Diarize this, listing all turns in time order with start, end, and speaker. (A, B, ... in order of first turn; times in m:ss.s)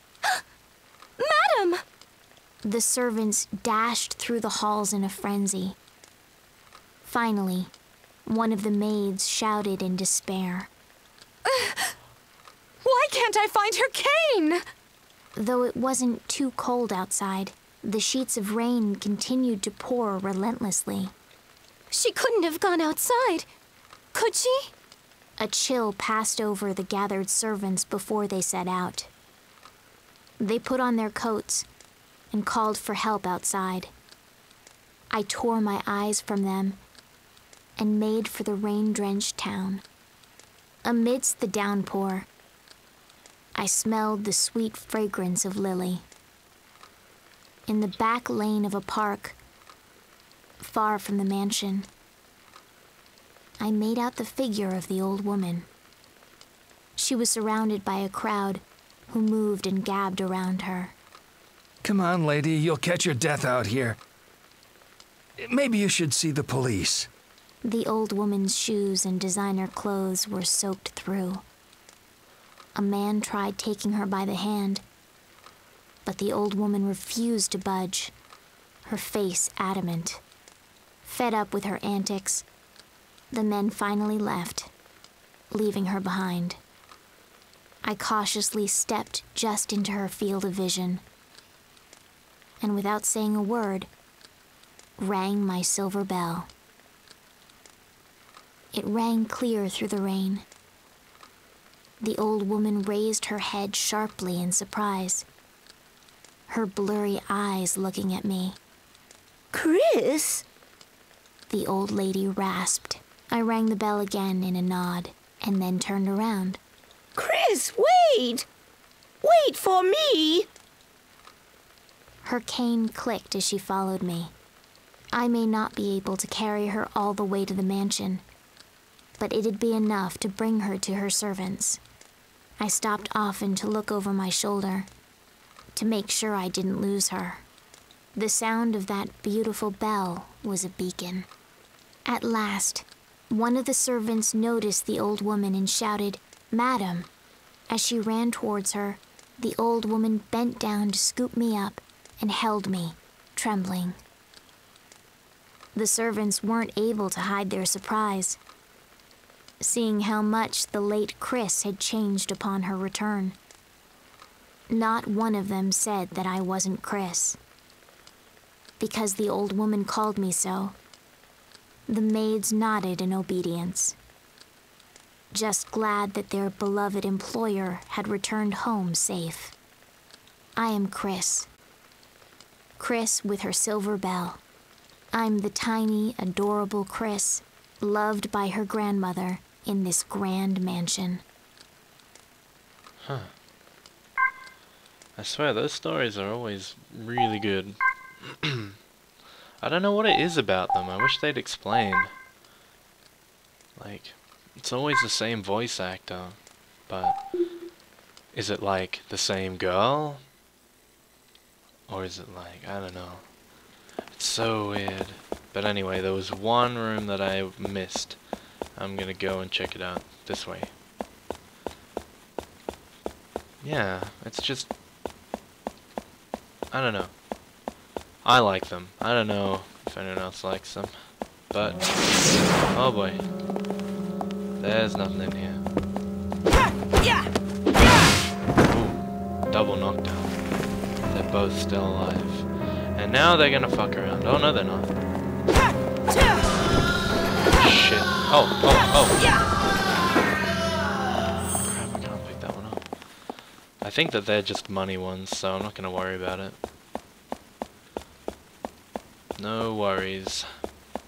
0:01.2-0:01.8 A
0:02.6-0:05.8 B
0:07.0-0:07.7 B
0:08.3-0:10.7 B
0:12.8-0:14.6 A
0:15.4-0:21.1 B
0:21.9-0:23.5 A
0:24.1-0:24.7 A
0:25.4-0:29.1 B
0:30.4-0:31.7 B
0:32.3-0:33.9 B
0:35.1-0:36.8 B
0:37.8-0:39.8 B
0:40.8-0:42.3 B
0:43.6-0:46.0 B
0:47.7-0:49.4 B
0:50.6-0:51.9 B
0:53.6-0:55.7 B
0:57.0-1:00.9 B
1:01.8-1:04.0 C
1:05.4-1:07.1 C
1:07.6-1:11.4 B
1:12.8-1:14.8 B
1:16.1-1:18.1 B
1:18.9-1:20.2 B
1:21.0-1:22.4 B
1:23.3-1:24.7 B
1:25.5-1:26.6 B
1:27.8-1:31.0 B
1:32.6-1:33.9 B
1:35.0-1:36.5 B
1:38.7-1:40.4 B
1:42.0-1:45.3 B
1:46.5-1:48.6 B
1:49.5-1:50.4 D
1:51.5-1:56.6 B
1:57.2-1:58.5 D
1:59.2-2:00.5 D
2:02.2-2:04.3 B
2:05.1-2:08.2 B
2:09.2-2:11.8 B
2:12.6-2:14.9 B
2:15.8-2:17.4 B
2:18.2-2:21.3 B
2:22.1-2:27.1 B
2:27.7-2:34.0 B
2:35.8-2:38.4 B
2:39.6-2:43.4 B
2:44.7-2:47.4 B
2:48.8-2:50.8 B
2:51.9-2:54.0 B
2:55.3-2:59.5 B
3:00.6-3:01.5 B
3:02.8-3:04.4 B
3:05.1-3:11.2 B
3:13.0-3:13.3 E
3:15.2-3:18.8 E
3:19.6-3:22.1 E
3:23.8-3:27.2 E
3:28.3-3:30.2 E
3:31.9-3:33.2 E
3:34.1-3:38.2 E
3:38.8-3:40.7 E
3:43.6-3:44.7 E
3:46.7-3:47.1 E
3:48.2-3:51.0 E
3:51.5-3:51.9 E
3:52.7-3:53.2 E
3:54.6-3:55.6 E
3:58.6-4:00.4 E
4:01.1-4:04.9 E
4:07.6-4:09.2 E
4:11.6-4:12.9 E
4:13.8-4:16.6 E
4:19.4-4:20.5 E